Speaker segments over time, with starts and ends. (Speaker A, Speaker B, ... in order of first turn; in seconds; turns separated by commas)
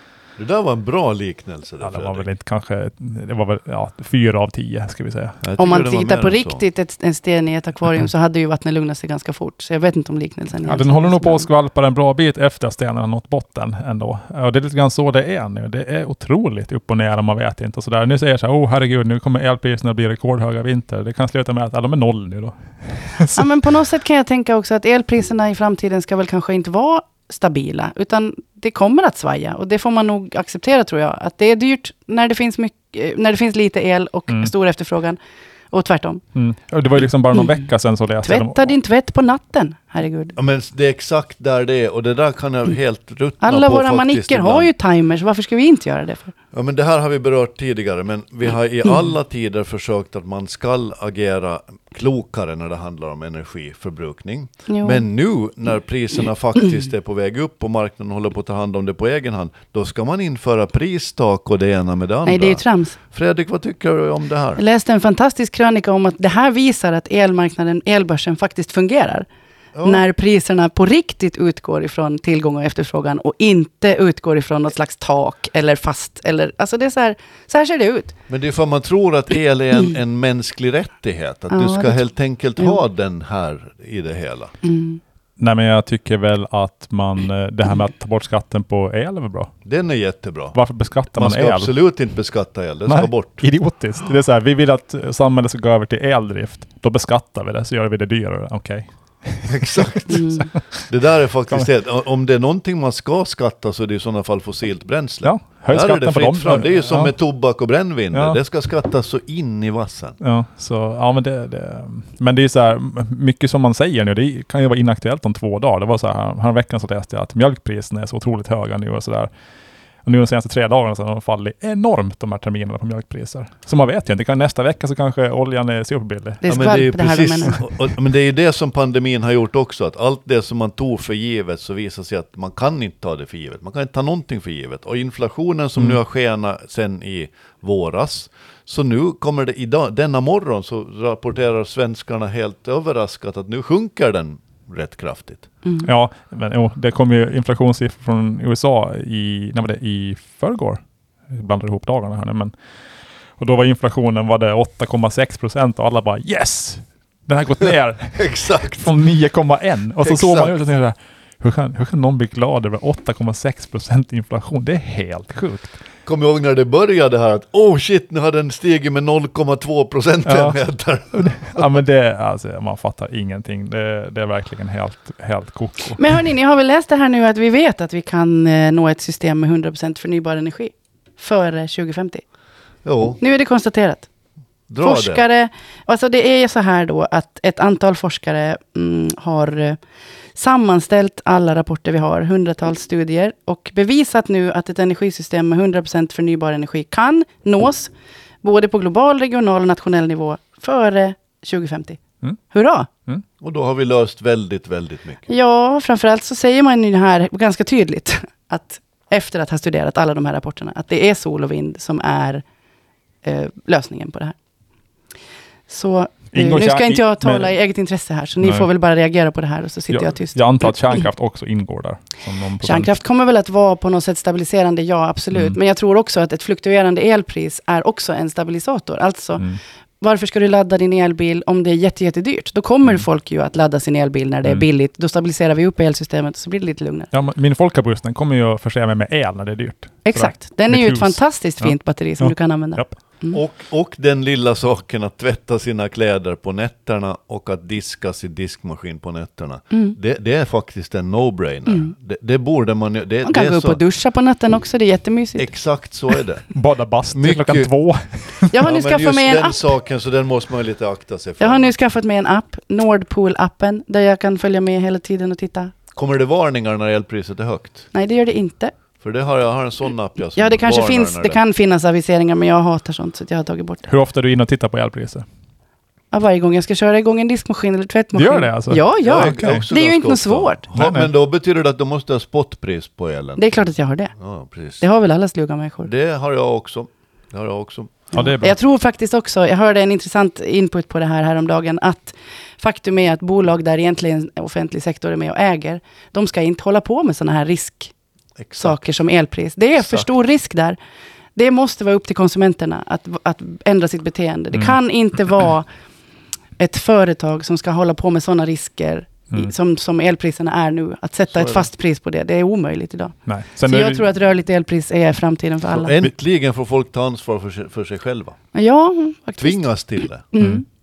Speaker A: 0.4-2.3, Speaker B: 1.8-5.4, Speaker A: 5.4-6.6, Speaker C: 5.6-11.5, Speaker B: 10.6-23.5, Speaker C: 23.3-35.2, Speaker C: 35.7-36.2, Speaker B: 36.4-38.7, Speaker C: 37.3-37.6, Speaker C: 38.2-40.4, Speaker A: 40.4-44.7, Speaker C: 43.4-46.3, Speaker A: 46.5-64.6, Speaker C: 54.7-55.0, Speaker C: 62.2-63.0, Speaker C: 64.6-69.3, Speaker A: 69.8-70.0, Speaker C: 69.8-78.2, Speaker A: 78.3-84.5, Speaker C: 81.5-82.0, Speaker C: 84.6-85.0, Speaker B: 85.4-89.5, Speaker A: 89.7-90.6, Speaker B: 90.5-91.7, Speaker A: 91.2-93.4, Speaker B: 92.9-100.8, Speaker A: 99.5-110.2, Speaker C: 100.1-100.5, Speaker B: 105.2-107.1, Speaker B: 108.1-108.4, Speaker B: 110.2-119.3, Speaker B: 120.0-126.7, Speaker C: 126.4-127.7, Speaker A: 126.5-145.5, Speaker B: 145.8-152.5, Speaker B: 153.4-165.7, Speaker A: 157.6-158.9, Speaker A: 160.0-160.5, Speaker A: 166.1-171.6, Speaker B: 170.2-176.0, Speaker C: 176.0-182.2, Speaker A: 182.8-183.2, Speaker C: 183.2-184.1, Speaker A: 184.7-185.2, Speaker C: 184.8-189.8, Speaker C: 190.4-197.9, Speaker C: 198.4-202.9, Speaker A: 203.4-205.3, Speaker C: 205.3-212.4, Speaker C: 213.2-214.3, Speaker C: 215.7-221.0, Speaker B: 216.3-217.6, Speaker B: 218.4-218.7, Speaker B: 219.9-222.9, Speaker C: 222.6-229.4, Speaker C: 230.0-237.1, Speaker B: 237.1-242.9, Speaker C: 240.1-243.4, Speaker A: 243.3-253.8, Speaker C: 249.7-250.0, Speaker C: 253.2-255.5, Speaker A: 255.4-256.5, Speaker B: 256.5-258.5, Speaker A: 257.1-257.7, Speaker C: 258.5-259.7, Speaker A: 258.6-261.8, Speaker C: 261.4-265.7, Speaker A: 265.9-267.9, Speaker C: 267.9-268.7, Speaker A: 269.0-271.4, Speaker C: 270.4-273.9, Speaker B: 273.9-275.2, Speaker C: 276.1-280.6, Speaker B: 278.1-279.6, Speaker A: 279.0-283.4, Speaker B: 280.8-281.1, Speaker C: 283.4-284.1, Speaker A: 284.2-284.8, Speaker C: 284.8-285.9, Speaker A: 285.9-288.1, Speaker C: 288.1-297.9, Speaker B: 288.1-288.6, Speaker A: 298.4-298.8, Speaker C: 298.6-300.8, Speaker A: 299.8-300.1, Speaker C: 301.4-305.7, Speaker C: 306.6-316.1, Speaker A: 311.3-311.7, Speaker B: 313.3-314.1, Speaker A: 315.7-318.4, Speaker C: 318.5-319.6, Speaker A: 319.4-320.3, Speaker C: 320.2-320.6, Speaker B: 320.4-320.6